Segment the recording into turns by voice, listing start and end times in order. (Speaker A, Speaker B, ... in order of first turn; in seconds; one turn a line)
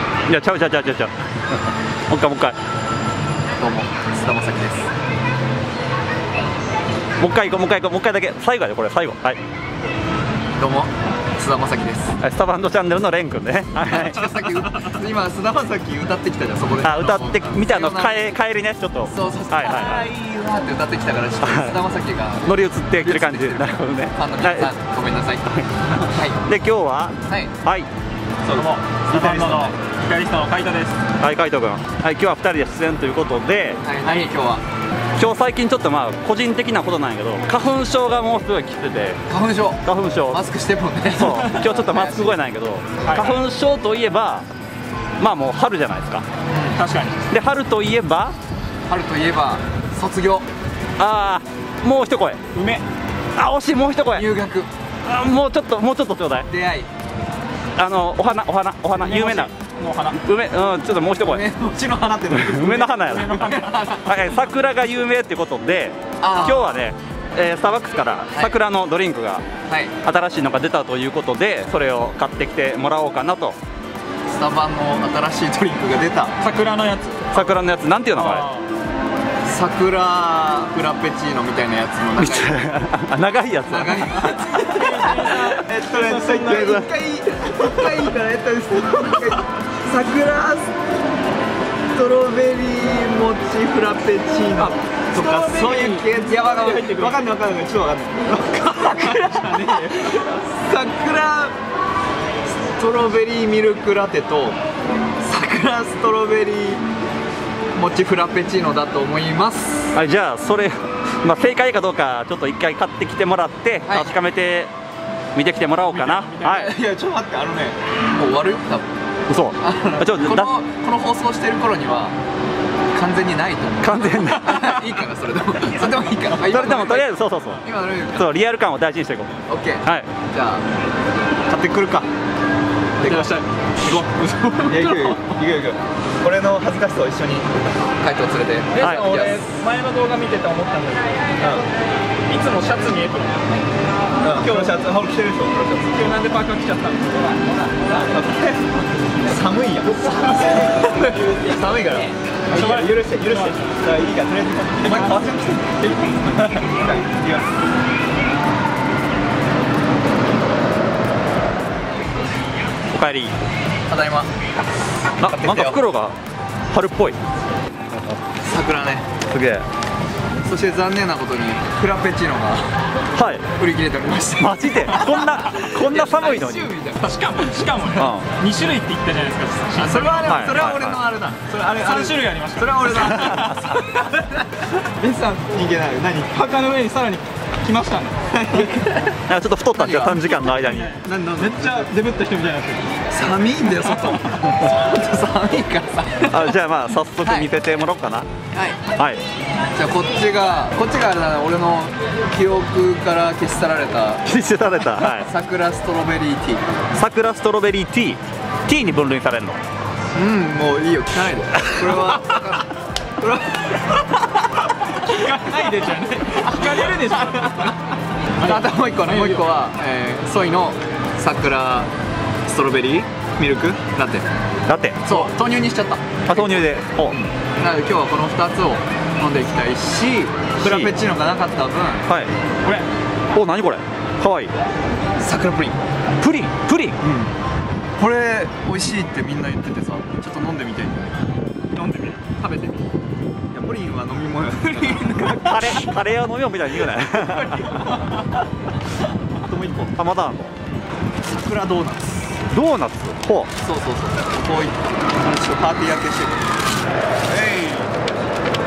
Speaker A: 0.3-2.6
Speaker B: 3.6-4.9
Speaker A: 7.2-9.4
Speaker B: 10.6-12.2
Speaker A: 12.2-14.6
Speaker B: 13.9-18.4
Speaker A: 16.8-20.1
Speaker B: 19.1-25.4
Speaker A: 21.4-21.8
Speaker A: 22.4-24.7
Speaker A: 25.5-27.9
Speaker B: 26.1-26.4
Speaker B: 27.2-27.5
Speaker C: 28.5-31.0
Speaker B: 28.5-29.7
Speaker A: 31.2-33.8
Speaker B: 33.8-34.6
Speaker A: 35.2-39.2
Speaker B: 39.3-42.4
Speaker A: 39.8-40.4
Speaker A: 41.2-44.5
Speaker C: 43.0-43.4
Speaker A: 45.2-46.2
Speaker B: 46.5-46.8
Speaker C: 46.7-47.2
Speaker A: 47.3-48.4
Speaker B: 48.9-50.5
Speaker A: 51.0-52.4
Speaker C: 52.5-52.8
Speaker A: 53.3-54.2
Speaker B: 54.1-54.7
Speaker A: 55.0-56.5
Speaker B: 56.5-56.9
Speaker A: 57.8-59.5
Speaker C: 59.0-60.2
Speaker A: 60.1-61.4
Speaker B: 61.2-64.2
Speaker A: 62.3-69.5
Speaker C: 62.9-63.8
Speaker B: 66.2-66.9
Speaker B: 68.3-68.5
Speaker B: 69.7-69.9
Speaker A: 70.0-73.6
Speaker B: 74.3-76.3
Speaker C: 76.4-77.5
Speaker A: 77.3-78.5
Speaker C: 78.1-78.7
Speaker B: 79.4-82.9
Speaker A: 82.2-84.5
Speaker B: 83.7-90.8
Speaker C: 84.3-86.8
Speaker A: 86.4-86.9
Speaker B: 91.9-101.5
Speaker C: 94.6-97.3
Speaker C: 98.8-100.3
Speaker B: 102.6-104.6
Speaker B: 105.2-106.8
Speaker B: 107.8-110.0
Speaker A: 109.9-114.7
Speaker B: 113.9-114.1
Speaker A: 115.3-116.7
Speaker C: 115.9-116.7
Speaker B: 116.4-118.9
Speaker A: 119.3-120.5
Speaker B: 119.6-122.2
Speaker B: 122.9-128.3
Speaker A: 123.8-124.7
Speaker A: 126.4-127.6
Speaker A: 128.2-129.3
Speaker B: 129.5-130.7
Speaker B: 131.5-132.1
Speaker B: 133.0-133.4
Speaker C: 133.0-135.4
Speaker B: 134.7-139.5
Speaker C: 138.7-141.3
Speaker A: 138.8-139.2
Speaker C: 142.3-143.4
Speaker B: 144.2-146.0
Speaker C: 144.2-144.8
Speaker C: 145.9-147.5
Speaker B: 148.1-157.5
Speaker C: 152.5-153.8
Speaker C: 154.7-156.5
Speaker A: 162.9-163.3
Speaker B: 163.9-164.3
Speaker A: 165.2-166.2
Speaker B: 165.2-165.8
Speaker A: 166.7-167.2
Speaker A: 167.9-168.2
Speaker B: 168.4-169.1
Speaker A: 169.3-169.7
Speaker B: 170.4-172.7
Speaker A: 173.2-173.4
Speaker B: 173.6-177.2
Speaker A: 174.4-176.7
Speaker C: 177.0-180.4
Speaker A: 178.0-178.3
Speaker B: 179.8-186.4
Speaker A: 180.3-181.0
Speaker C: 181.5-183.8
Speaker C: 186.3-188.2
Speaker B: 188.3-189.2
Speaker A: 189.3-191.0
Speaker B: 189.8-190.2
Speaker C: 190.4-193.0
Speaker B: 191.0-191.9
Speaker B: 193.1-196.6
Speaker A: 196.2-198.3
Speaker B: 197.2-197.5
Speaker B: 198.5-198.8
Speaker A: 199.0-199.2
Speaker B: 199.7-204.2
Speaker A: 204.2-205.3
Speaker B: 205.0-206.7
Speaker A: 206.9-209.6
Speaker B: 210.1-214.3
Speaker C: 215.0-217.8
Speaker C: 218.4-219.5
Speaker B: 218.4-221.9
Speaker B: 222.5-224.2
Speaker A: 224.7-225.0
Speaker B: 225.0-232.1
Speaker A: 226.3-227.2
Speaker A: 230.6-230.9
Speaker A: 232.1-232.3
Speaker A: 233.3-234.5
Speaker B: 235.2-235.8
Speaker A: 236.2-237.0
Speaker B: 237.0-237.3
Speaker B: 238.0-241.2
Speaker C: 241.7-242.2
Speaker B: 242.4-242.8
Speaker B: 243.5-245.6
Speaker C: 244.9-245.7
Speaker A: 245.3-247.8
Speaker B: 247.5-248.2
Speaker C: 247.7-248.3
Speaker B: 249.5-249.9
Speaker A: 249.7-250.5
Speaker B: 251.3-252.4
Speaker A: 252.5-253.5
Speaker B: 253.6-256.4
Speaker C: 257.3-257.9